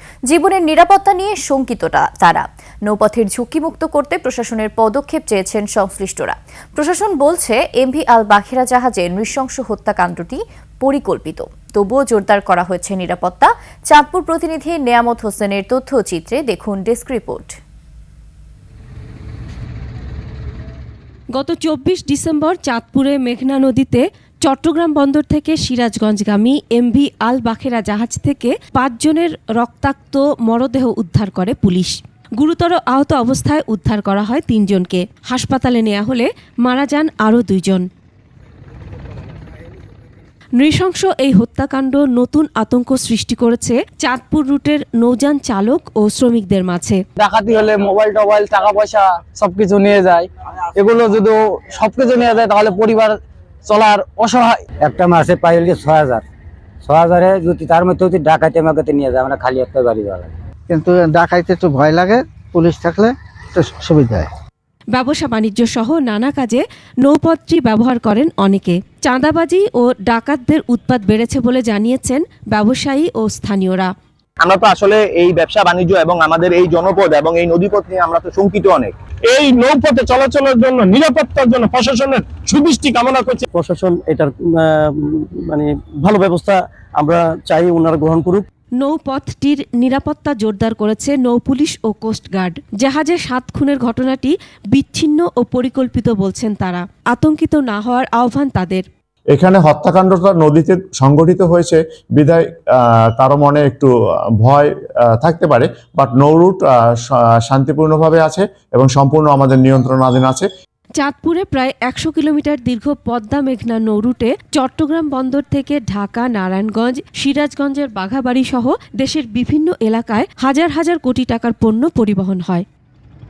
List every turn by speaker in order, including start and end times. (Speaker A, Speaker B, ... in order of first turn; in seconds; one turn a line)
Speaker A: 0.3-17.5
Speaker B: 21.4-37.9
Speaker B: 40.6-47.0
Speaker C: 47.2-54.6
Speaker D: 54.8-56.2
Speaker D: 56.8-60.3
Speaker E: 60.7-64.3
Speaker B: 64.9-73.9
Speaker F: 74.4-78.9
Speaker G: 81.1-83.3
Speaker H: 83.5-88.5
Speaker B: 88.8-98.8
Speaker I: 99.3-110.5
Speaker B: 111.0-122.7